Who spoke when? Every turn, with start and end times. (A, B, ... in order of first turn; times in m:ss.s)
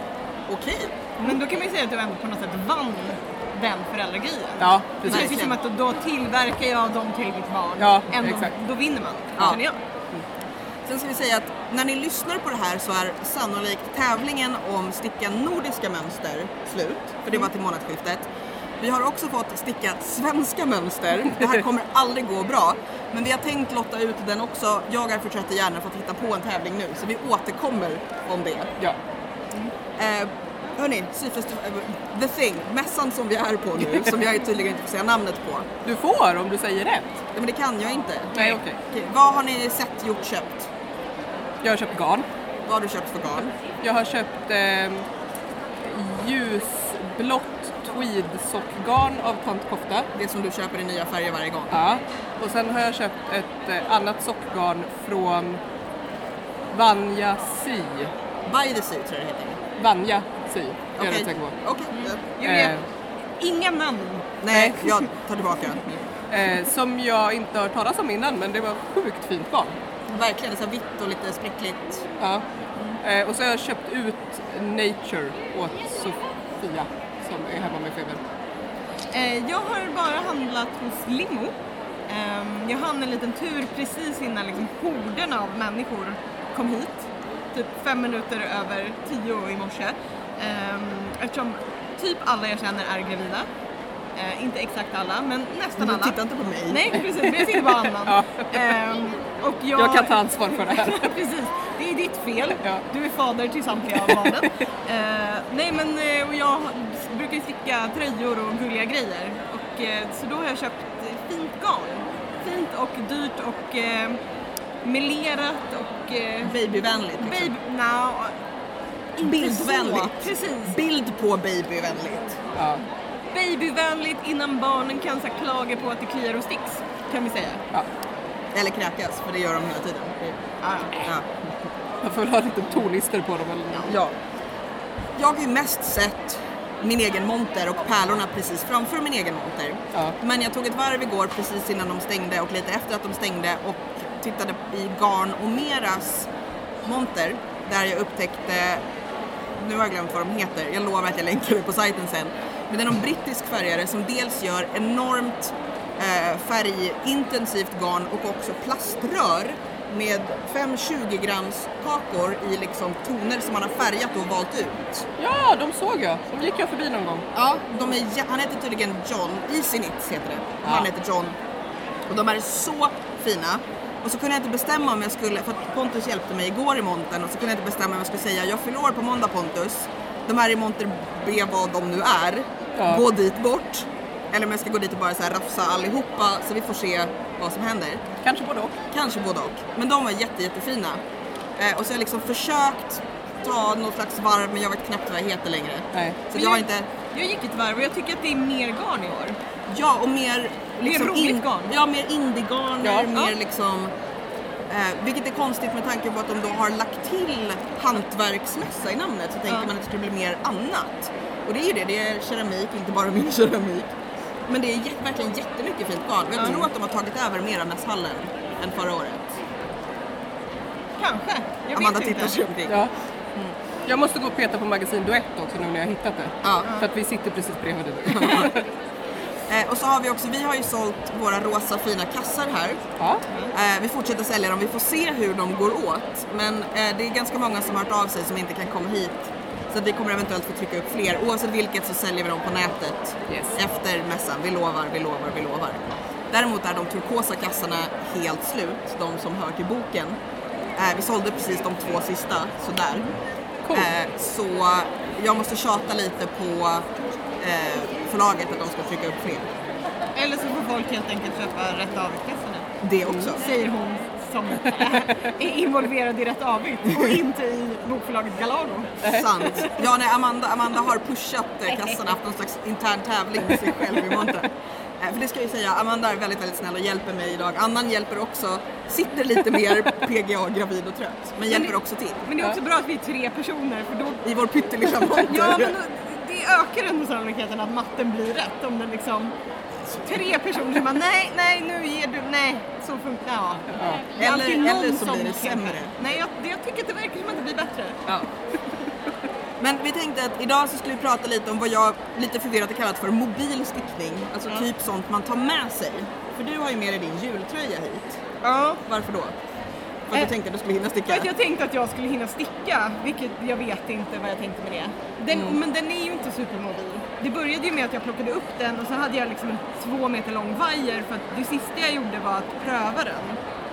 0:00.5-0:00.9 A
0:01.2-0:09.8 B
0:04.6-0:05.4 C
0:05.0-0:05.6 A
0:07.8-0:08.5 C
0:10.8-0:18.3 A
0:18.8-0:28.7 A
0:30.0-0:35.7 A
0:35.8-0:37.2 C
0:37.3-0:40.7 A
0:38.3-0:38.8 C
0:41.6-0:42.2 C
0:42.6-0:43.5 A
0:43.8-0:45.0 C
0:45.8-0:50.1 C
0:50.1-0:51.8 A
0:51.7-0:55.6 C
0:56.7-0:58.1 C
0:58.4-0:59.6 A
0:59.8-1:01.5 C
1:01.0-1:02.2 A
1:01.9-1:02.8 B
1:02.4-1:02.8 C
1:03.4-1:04.4 B
1:04.4-1:06.0 A
1:04.5-1:04.8 C
1:06.3-1:09.8 C
1:10.1-1:12.0 A
1:13.0-1:18.2 C
1:19.1-1:21.5 B
1:22.1-1:33.5 B
1:34.1-1:54.2 B
1:35.8-1:37.0 A
1:37.5-1:38.7 C
1:39.7-1:41.1 C
1:54.8-1:56.5 B
1:56.4-1:57.5 A
1:57.2-1:58.4 B
1:59.2-2:00.8 B
1:59.2-2:02.4 A
2:02.6-2:02.8 C
2:03.3-2:07.6 B
2:08.5-2:10.4 A
2:10.6-2:11.0 B
2:11.0-2:11.3 A
2:12.0-2:14.0 C
2:13.8-2:14.2 A
2:15.2-2:26.3 A
2:26.8-2:28.8 A
2:29.6-2:45.0 A
2:45.2-2:47.2 C
2:47.3-2:51.4 A
2:52.1-3:08.0 A
3:02.8-3:03.0 C
3:08.2-3:08.7 C
3:08.9-3:11.0 A
3:11.6-3:16.9 A
3:15.9-3:16.2 C
3:16.3-3:19.4 B
3:19.7-3:23.9 A
3:20.8-3:21.7 B
3:22.8-3:23.1 C
3:24.7-3:33.9 A
3:34.5-3:39.2 A
3:36.4-3:36.7 B
3:41.0-3:42.4 B
3:41.7-3:42.8 A
3:43.8-3:48.7 C
3:46.4-3:46.7 A
3:48.0-3:48.5 A
3:49.5-3:52.8 A
3:53.5-4:10.2 A
4:03.3-4:03.6 C
4:10.8-4:13.1 A
4:13.7-4:16.8 A
4:17.4-4:19.5 A
4:20.1-4:22.7 B
4:22.8-4:23.4 A
4:23.0-4:23.3 C
4:23.3-4:28.9 B
4:29.0-4:29.8 C
4:29.0-4:34.5 A
4:35.0-4:42.3 A
4:41.5-4:44.2 B
4:44.2-4:45.7 A
4:45.2-4:49.3 B
4:49.9-4:58.0 B
4:53.7-4:54.0 C
4:54.2-4:56.1 A
4:59.6-5:08.2 A
5:08.4-5:08.8 B
5:08.8-5:09.3 A
5:10.1-5:11.3 A
5:11.1-5:23.4 B